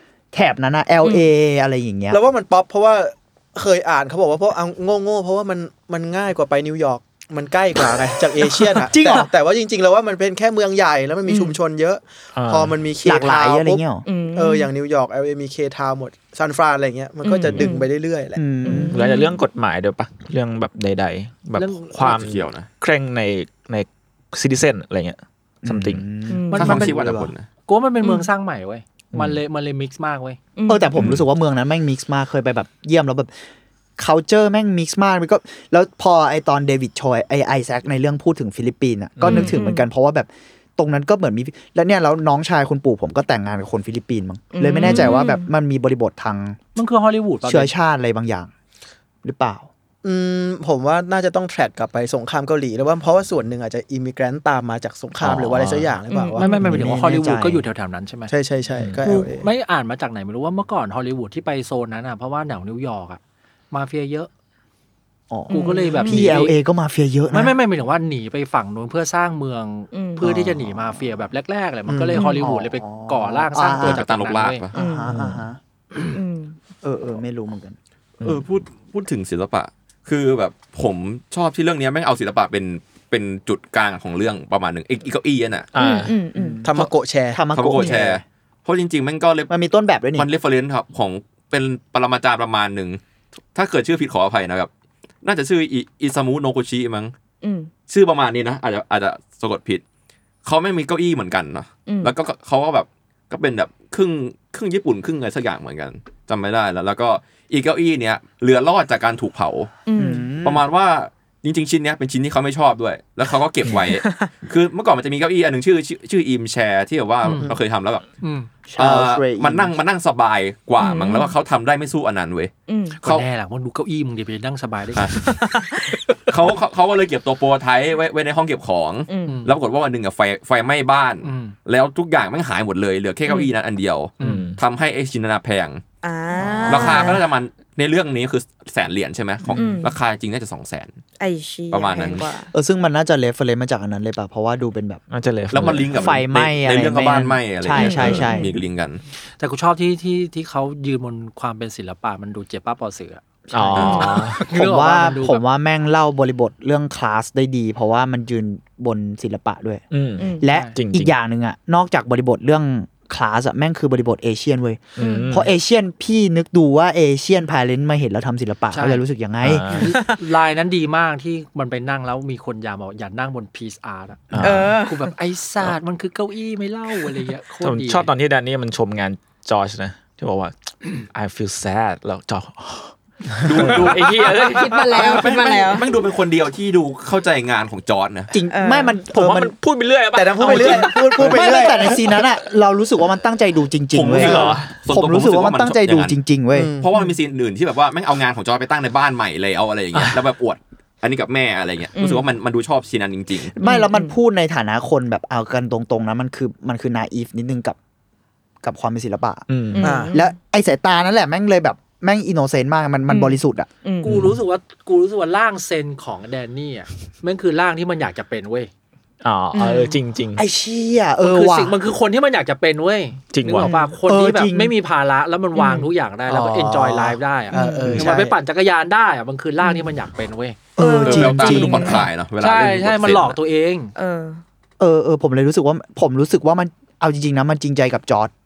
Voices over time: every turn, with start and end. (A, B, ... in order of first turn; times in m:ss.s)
0:00.3-0:02.2 A
0:01.0-0:01.3 B
0:02.1-0:18.5 C
0:08.7-0:09.3 A
0:11.3-0:11.6 B
0:12.3-0:12.8 D
0:13.0-0:14.0 A
0:14.0-0:14.7 B
0:17.2-0:17.9 B
0:18.4-0:18.9 A
0:18.6-0:19.4 B
0:18.8-0:26.0 D
0:21.6-0:22.2 E
0:22.0-0:22.7 F
0:25.6-0:27.3 A
0:26.3-0:26.9 B
0:26.5-0:26.9 E
0:26.5-0:27.5 F
0:27.7-0:30.4 E
0:28.0-0:28.3 B
0:29.1-0:29.4 D
0:30.6-0:31.0 B
0:30.7-0:33.3 A
0:34.0-0:46.6 A
0:39.2-0:39.6 D
0:39.2-0:39.8 B
0:44.5-0:45.5 B
0:46.7-0:47.7 E
0:47.4-0:48.5 A
0:49.2-0:49.7 A
0:50.0-0:56.8 C
0:55.2-0:55.9 D
0:56.1-0:56.6 B
0:56.4-0:58.3 E
0:56.6-0:57.6 A
0:58.3-0:59.5 C
0:58.8-0:59.0 D
0:59.0-1:03.2 E
1:03.7-1:04.3 E
1:05.3-1:07.6 A
1:05.5-1:06.3 B
1:05.5-1:06.5 E
1:07.3-1:14.6 E
1:09.9-1:10.3 B
1:10.2-1:10.7 A
1:11.9-1:14.0 A
1:13.8-1:14.7 F
1:14.7-1:15.2 B
1:14.7-1:15.6 A
1:16.1-1:16.6 B
1:16.8-1:17.8 A
1:18.2-1:25.7 F
1:25.7-1:26.2 D
1:25.8-1:26.7 B
1:26.3-1:26.7 A
1:26.6-1:27.4 C
1:27.3-1:28.2 A
1:27.5-1:29.5 F
1:29.5-1:30.3 A
1:30.1-1:33.0 F
1:33.5-1:34.7 F
1:35.2-1:37.1 F
1:37.4-1:37.7 B
1:37.9-1:39.8 F
1:40.4-1:49.7 F
1:41.8-1:42.1 B
1:49.9-1:50.3 B
1:49.9-1:50.6 A
1:50.4-1:58.0 F
1:53.9-1:54.3 B
1:57.2-1:57.5 E
1:58.2-1:58.5 E
1:58.7-1:59.7 A
1:58.8-2:02.5 F
2:00.8-2:01.3 B
2:02.7-2:03.0 B
2:03.0-2:05.2 E
2:05.2-2:06.0 B
2:06.3-2:15.8 F
2:09.1-2:09.4 B
2:09.3-2:09.5 E
2:11.2-2:11.5 E
2:13.3-2:13.5 B
2:14.2-2:14.4 E
2:14.2-2:14.6 D
2:16.0-2:17.2 B
2:16.7-2:21.0 F
2:19.6-2:19.9 B
2:21.2-2:22.5 B
2:21.7-2:22.3 F
2:22.5-2:25.0 A
2:25.1-2:25.9 D
2:25.5-2:29.0 F
2:25.9-2:28.5 A
2:27.7-2:28.6 B
2:29.4-2:35.4 E
2:33.5-2:34.4 D
2:33.8-2:34.1 B
2:34.5-2:39.8 A
2:39.9-2:41.1 D
2:40.2-2:40.5 B
2:40.4-2:49.8 A
2:40.5-2:40.8 E
2:45.0-2:45.5 D
2:45.0-2:45.4 B
2:48.7-2:49.0 E
2:49.4-2:49.9 D
2:49.8-2:58.1 E
2:49.9-2:50.2 B
2:54.3-2:54.7 D
2:54.4-2:55.1 B
2:57.6-3:05.3 D
3:03.4-3:08.3 F
3:04.3-3:05.9 B
3:08.3-3:09.5 A
3:08.5-3:09.0 B
3:09.0-3:11.7 D
3:10.1-3:12.0 C
3:10.4-3:16.7 A
3:13.9-3:16.2 F
3:14.1-3:14.8 D
3:16.5-3:16.9 C
3:16.8-3:23.6 F
3:21.9-3:22.3 B
3:23.6-3:27.8 A
3:23.6-3:24.1 B
3:28.6-3:29.5 A
3:29.5-3:30.0 D
3:29.7-3:30.3 B
3:29.8-3:30.1 C
3:30.1-3:33.7 A
3:33.1-3:34.1 B
3:34.0-3:38.7 E
3:34.1-3:34.4 D
3:39.2-3:40.4 D
3:39.5-3:40.0 B
3:40.4-3:41.8 A
3:41.2-3:50.6 E
3:43.3-3:43.7 D
3:43.5-3:44.0 B
3:44.0-3:44.7 A
3:45.6-3:45.9 B
3:46.3-3:48.4 C
3:47.5-3:48.0 A
3:49.6-3:49.9 B
3:50.8-3:52.0 A
3:50.8-3:52.0 B
3:51.0-3:53.4 F
3:52.4-3:53.9 E
3:53.9-3:54.4 B
3:54.8-3:58.3 A